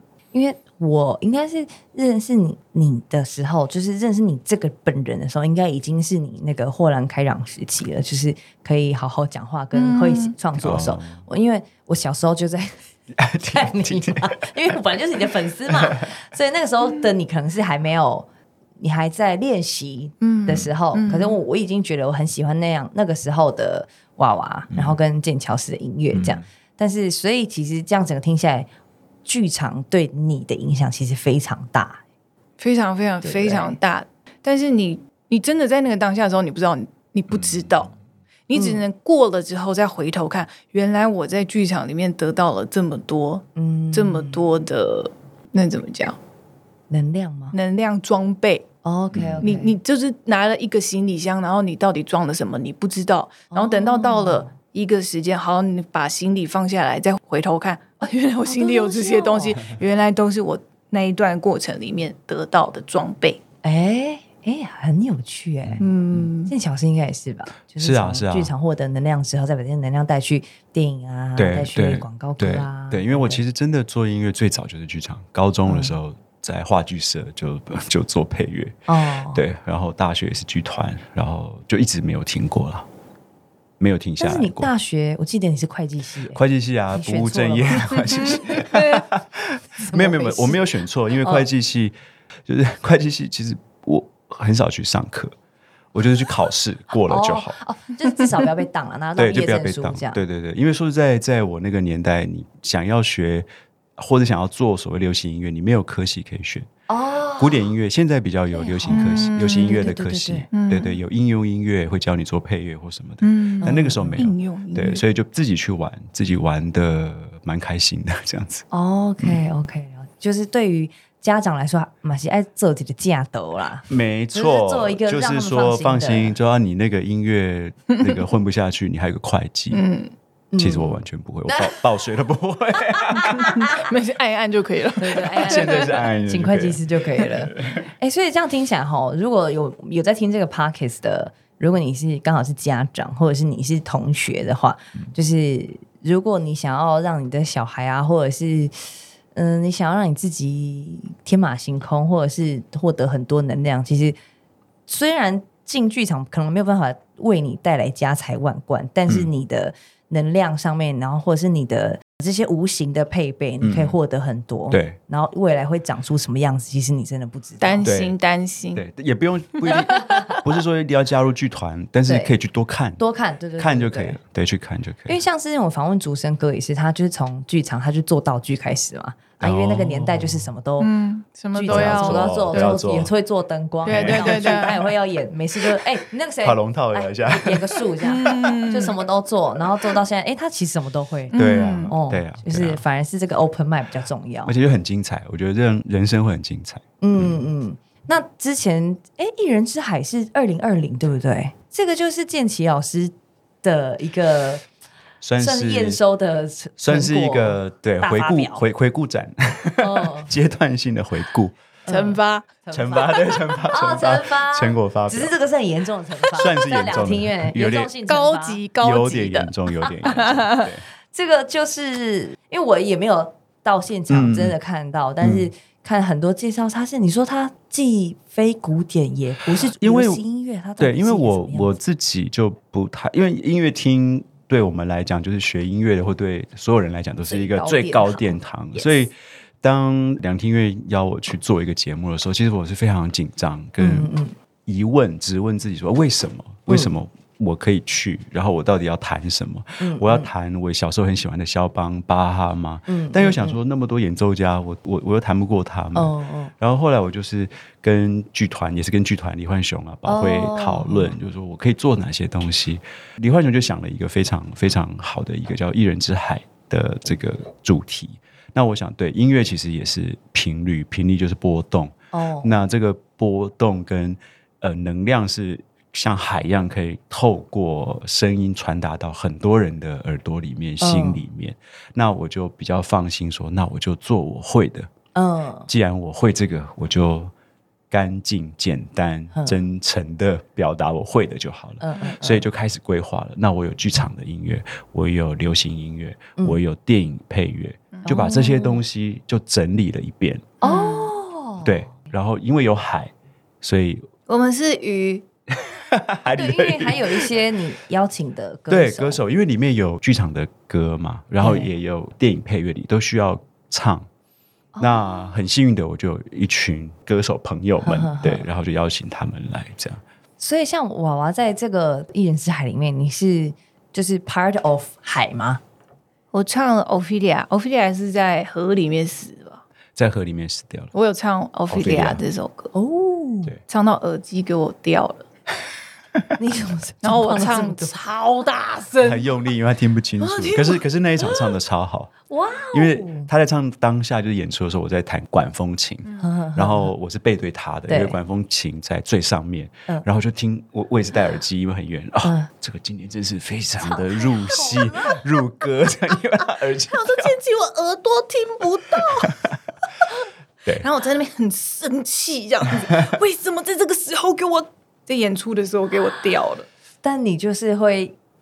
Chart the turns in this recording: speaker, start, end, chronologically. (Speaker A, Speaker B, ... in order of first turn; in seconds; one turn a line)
Speaker A: 0.3-12.8
Speaker B: 9.7-10.3
Speaker C: 10.6-11.2
Speaker C: 13.1-14.3
Speaker A: 13.5-18.3
Speaker A: 18.8-28.7
Speaker B: 20.2-21.4
Speaker C: 24.7-25.0
Speaker C: 26.1-26.4
Speaker A: 29.2-32.0
Speaker B: 32.6-37.9
Speaker A: 33.2-33.8
Speaker C: 37.3-37.7
Speaker B: 38.5-46.2
Speaker A: 38.5-38.8
Speaker A: 43.5-44.4
Speaker A: 46.9-47.5
Speaker B: 47.5-48.6
Speaker A: 48.8-49.8
Speaker C: 49.1-49.5
Speaker B: 49.4-63.4
Speaker A: 53.5-54.5
Speaker A: 58.4-59.6
Speaker A: 63.6-65.9
Speaker C: 65.6-66.2
Speaker B: 65.8-66.5
Speaker A: 66.5-73.4
Speaker C: 67.8-68.5
Speaker C: 71.4-78.8
Speaker A: 75.7-76.0
Speaker A: 78.9-79.4
Speaker C: 79.3-82.9
Speaker C: 83.8-84.7
Speaker A: 84.2-86.4
Speaker C: 86.3-91.9
Speaker A: 86.9-88.8
Speaker A: 89.8-90.7
Speaker A: 91.2-91.5
Speaker C: 92.5-95.3
Speaker C: 95.9-97.6
Speaker A: 97.0-100.2
Speaker C: 99.2-106.7
Speaker A: 106.9-107.7
Speaker C: 107.4-118.6
Speaker A: 108.5-110.5
Speaker B: 108.9-109.8
Speaker B: 110.5-111.0
Speaker B: 113.2-115.0
Speaker A: 113.6-114.3
Speaker A: 118.7-126.4
Speaker C: 123.9-129.8
Speaker B: 129.7-130.1
Speaker A: 130.5-131.7
Speaker C: 130.6-133.6
Speaker A: 133.1-133.9
Speaker B: 133.3-136.0
Speaker A: 135.0-154.2
Speaker C: 135.4-137.8
Speaker A: 154.9-167.9
Speaker C: 163.6-164.0
Speaker C: 164.7-165.0
Speaker B: 167.6-168.8
Speaker C: 167.8-168.2
Speaker C: 168.7-173.0
Speaker B: 169.7-170.0
Speaker A: 169.9-170.4
Speaker A: 172.1-172.3
Speaker A: 173.0-174.2
Speaker C: 173.6-175.2
Speaker A: 175.1-180.9
Speaker C: 179.4-180.4
Speaker B: 180.8-182.7
Speaker A: 181.5-194.5
Speaker C: 181.7-183.1
Speaker C: 183.8-184.8
Speaker B: 183.8-184.8
Speaker C: 186.4-187.8
Speaker B: 188.0-189.0
Speaker B: 191.3-191.9
Speaker C: 191.3-192.8
Speaker C: 194.4-197.4
Speaker A: 197.0-204.6
Speaker C: 205.2-206.0
Speaker A: 205.4-208.6
Speaker C: 206.8-211.6
Speaker A: 209.8-210.3
Speaker A: 211.8-218.6
Speaker B: 211.9-212.5
Speaker C: 212.7-215.3
Speaker C: 216.3-217.9
Speaker B: 218.1-220.7
Speaker C: 218.8-220.8
Speaker A: 221.1-231.8
Speaker C: 224.1-224.6
Speaker C: 225.2-225.5
Speaker C: 229.6-230.2
Speaker C: 230.8-244.1
Speaker A: 237.3-238.9
Speaker A: 243.8-244.3
Speaker C: 244.7-284.9
Speaker A: 246.7-246.9
Speaker A: 249.8-250.3
Speaker A: 252.9-253.6
Speaker A: 255.9-256.5
Speaker A: 260.1-261.1
Speaker A: 272.1-272.5
Speaker A: 280.8-281.2
Speaker A: 285.1-285.7
Speaker C: 285.7-287.3
Speaker C: 287.9-300.5
Speaker A: 291.8-292.4
Speaker A: 298.0-298.8
Speaker A: 300.6-301.9
Speaker B: 300.6-301.1
Speaker C: 301.6-304.1
Speaker B: 304.3-305.2
Speaker C: 305.5-307.4
Speaker A: 306.3-309.2
Speaker C: 308.7-314.1
Speaker A: 311.4-311.7
Speaker A: 314.7-315.4
Speaker C: 314.8-320.0
Speaker A: 317.8-318.4
Speaker A: 320.4-325.6
Speaker B: 326.3-329.6
Speaker C: 329.9-330.9
Speaker B: 330.9-332.7
Speaker C: 331.7-332.2
Speaker A: 332.7-333.5
Speaker B: 333.7-335.2
Speaker A: 336.4-337.9
Speaker B: 337.0-339.5
Speaker C: 339.0-342.1
Speaker B: 340.2-340.8
Speaker A: 342.3-343.3
Speaker C: 342.7-357.4
Speaker B: 346.0-346.3
Speaker A: 346.2-346.9
Speaker A: 347.9-348.2
Speaker A: 352.2-352.5
Speaker B: 353.9-355.2
Speaker B: 356.9-359.4
Speaker C: 358.9-359.6
Speaker B: 360.8-366.7
Speaker A: 367.0-368.1